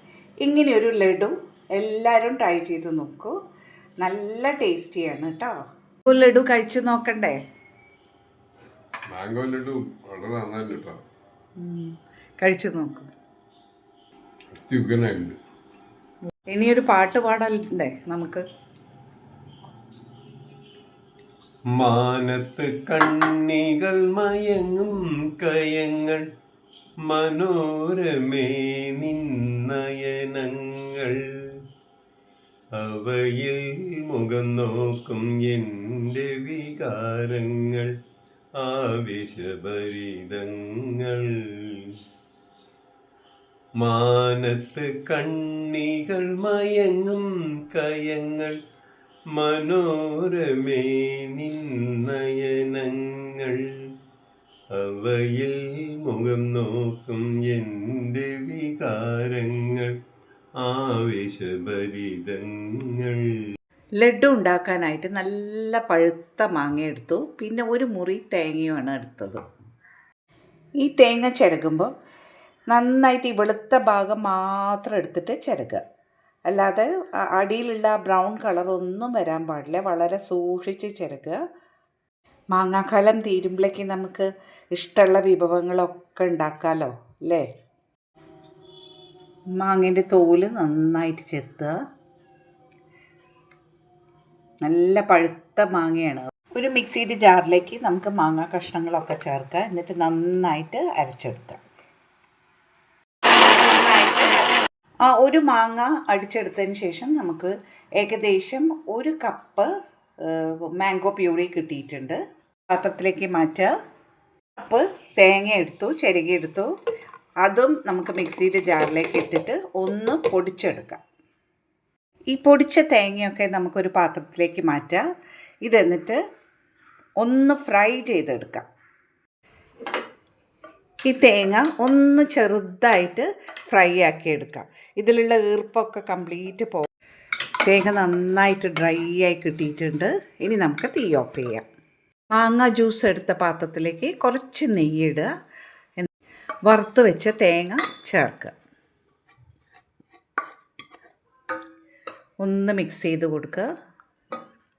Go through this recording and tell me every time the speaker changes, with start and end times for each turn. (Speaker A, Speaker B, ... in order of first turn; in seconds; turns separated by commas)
Speaker A: 0.4-3.3, Speaker A: 4.0-5.5, Speaker A: 6.1-7.4, Speaker B: 9.1-11.0, Speaker A: 11.6-13.1, Speaker B: 14.5-15.4, Speaker A: 16.5-18.4, Speaker C: 21.7-26.2, Speaker C: 27.1-31.5, Speaker C: 32.8-37.9, Speaker C: 38.6-42.0, Speaker C: 43.8-48.6, Speaker C: 49.3-53.9, Speaker C: 54.7-60.0, Speaker C: 60.6-63.6, Speaker A: 64.0-69.5, Speaker A: 70.8-71.9, Speaker A: 72.7-75.8, Speaker A: 76.5-81.4, Speaker A: 82.5-87.5, Speaker A: 89.6-91.8, Speaker A: 94.6-101.6, Speaker A: 103.6-104.5, Speaker A: 105.0-113.7, Speaker A: 114.6-116.7, Speaker A: 117.4-121.0, Speaker A: 122.3-125.0, Speaker A: 125.6-126.2, Speaker A: 127.2-128.7, Speaker A: 131.0-136.9, Speaker A: 137.6-141.6, Speaker A: 142.3-145.3, Speaker A: 146.7-148.5, Speaker A: 152.4-153.7